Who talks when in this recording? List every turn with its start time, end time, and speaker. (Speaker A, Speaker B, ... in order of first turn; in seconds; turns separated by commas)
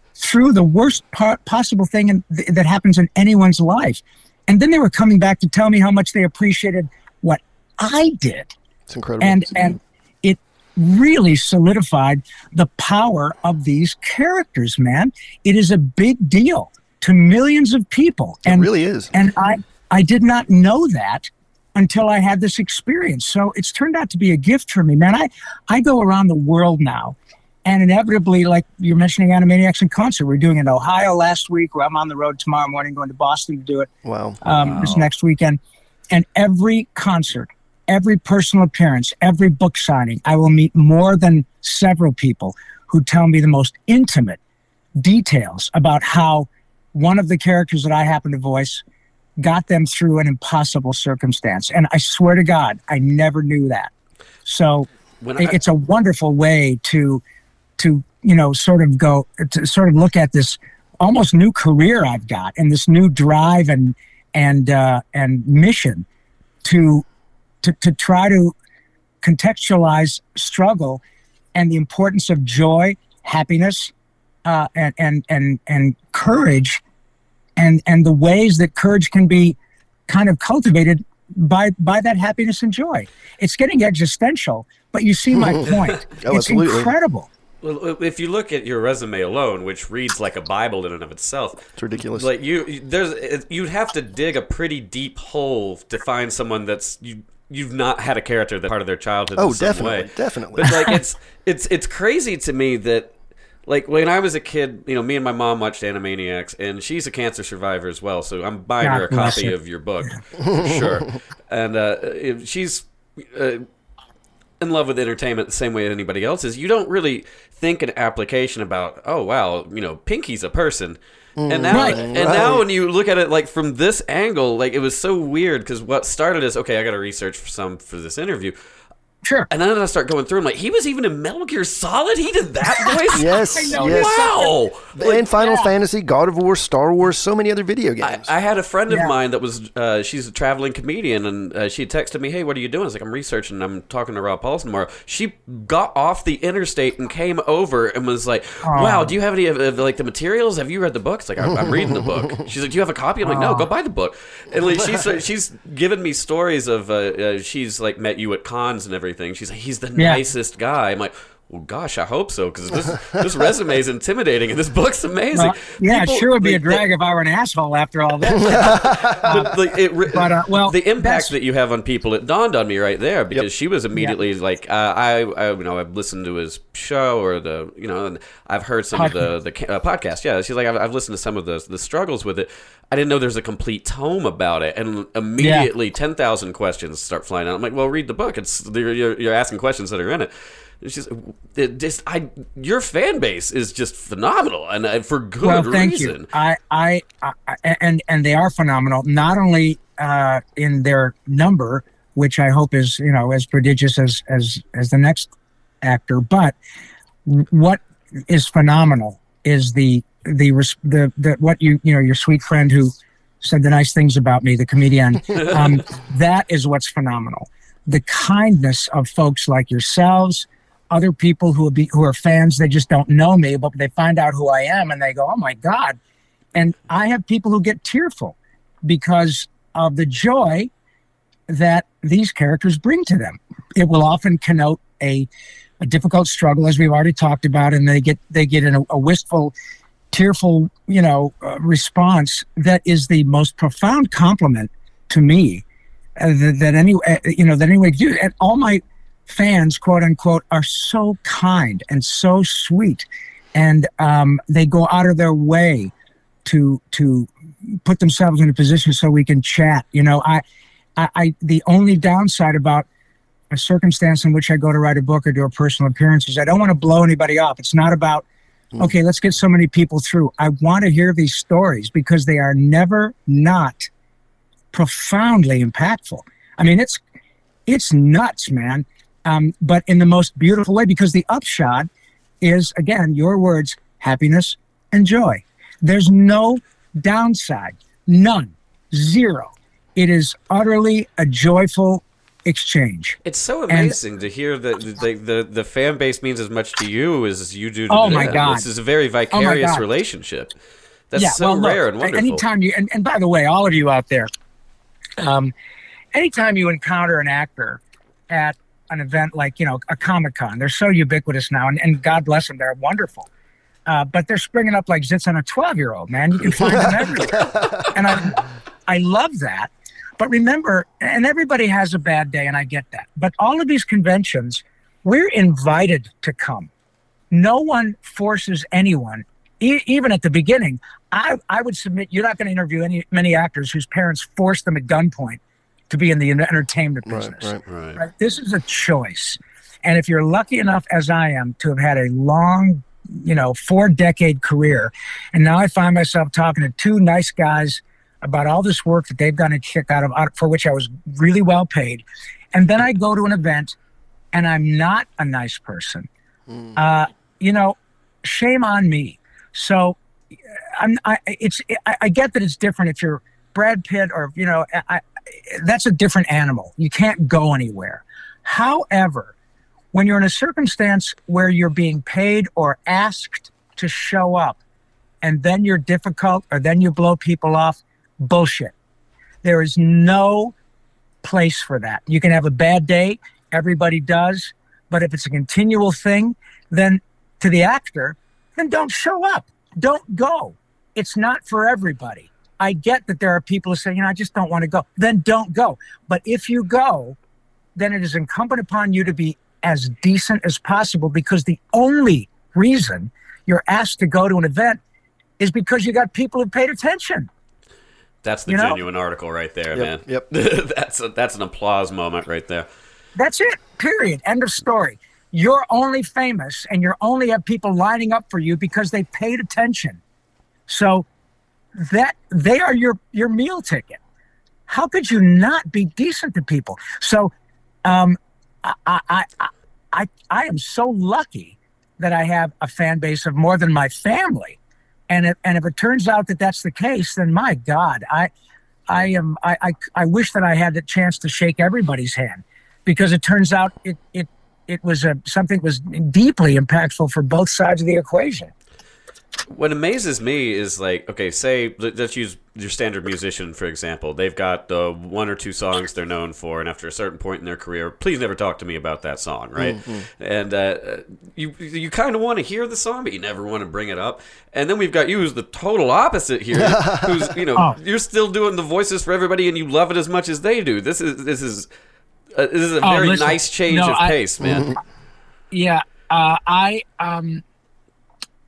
Speaker A: 0.2-8.5, Speaker B: 8.9-9.5, Speaker A: 9.2-33.9, Speaker B: 18.5-19.1, Speaker B: 34.0-34.9, Speaker A: 34.4-35.6, Speaker A: 36.1-44.4, Speaker A: 45.0-48.8, Speaker A: 49.4-53.9, Speaker A: 54.5-57.2, Speaker C: 55.2-55.6, Speaker A: 57.8-66.1, Speaker A: 66.6-67.0, Speaker A: 67.6-68.5, Speaker A: 69.2-71.0, Speaker A: 71.5-73.9, Speaker A: 74.5-76.8, Speaker A: 77.6-79.5, Speaker A: 80.1-87.3, Speaker B: 86.2-86.9, Speaker C: 87.6-103.1, Speaker B: 91.8-92.3, Speaker B: 99.3-100.8, Speaker C: 103.7-113.7, Speaker A: 108.8-109.5, Speaker B: 110.4-111.0, Speaker C: 114.6-128.5, Speaker B: 121.4-122.6, Speaker A: 121.7-122.0, Speaker A: 129.2-129.5, Speaker C: 129.5-134.9, Speaker A: 132.8-134.5, Speaker B: 133.2-134.3, Speaker B: 134.9-138.3, Speaker A: 135.1-135.7, Speaker C: 138.0-166.8, Speaker A: 148.6-149.1, Speaker B: 151.5-152.4, Speaker A: 153.2-153.7, Speaker A: 165.3-169.5, Speaker B: 168.5-169.2, Speaker C: 168.6-196.3, Speaker A: 170.1-171.3, Speaker A: 178.9-179.3, Speaker A: 185.4-185.7, Speaker A: 195.4-205.3, Speaker A: 205.8-206.6, Speaker A: 207.2-226.0, Speaker A: 226.5-230.7, Speaker A: 231.5-235.3, Speaker A: 235.8-239.5, Speaker A: 240.1-245.6, Speaker A: 246.2-255.9, Speaker A: 256.4-257.3, Speaker A: 257.8-260.4, Speaker A: 261.0-262.9, Speaker A: 263.5-268.2, Speaker A: 268.8-273.9, Speaker A: 274.7-277.0, Speaker A: 277.7-281.9, Speaker A: 282.4-293.2, Speaker C: 293.2-300.5, Speaker A: 293.7-294.0, Speaker A: 297.9-298.6, Speaker A: 299.3-299.8, Speaker C: 301.1-302.4, Speaker A: 301.2-304.3, Speaker A: 305.2-305.5, Speaker A: 306.1-313.3, Speaker A: 313.9-326.7, Speaker A: 327.3-353.8, Speaker B: 337.1-337.6, Speaker C: 337.7-338.0, Speaker A: 354.3-356.1, Speaker A: 356.8-360.0, Speaker A: 360.8-369.3, Speaker A: 369.9-374.6, Speaker A: 375.2-378.7, Speaker A: 379.4-380.5, Speaker A: 381.2-397.2, Speaker A: 397.8-404.8, Speaker A: 405.4-407.3, Speaker C: 408.2-412.7, Speaker A: 408.5-408.8, Speaker B: 409.7-410.2, Speaker A: 413.2-420.0, Speaker A: 420.7-421.1, Speaker A: 421.8-424.0, Speaker A: 424.7-427.3, Speaker A: 427.8-434.6, Speaker A: 435.1-438.3, Speaker A: 438.9-448.5, Speaker C: 449.5-471.7, Speaker B: 459.6-460.0, Speaker B: 466.5-467.4, Speaker C: 472.3-474.8, Speaker A: 472.8-474.2, Speaker B: 474.4-474.8, Speaker A: 475.5-477.4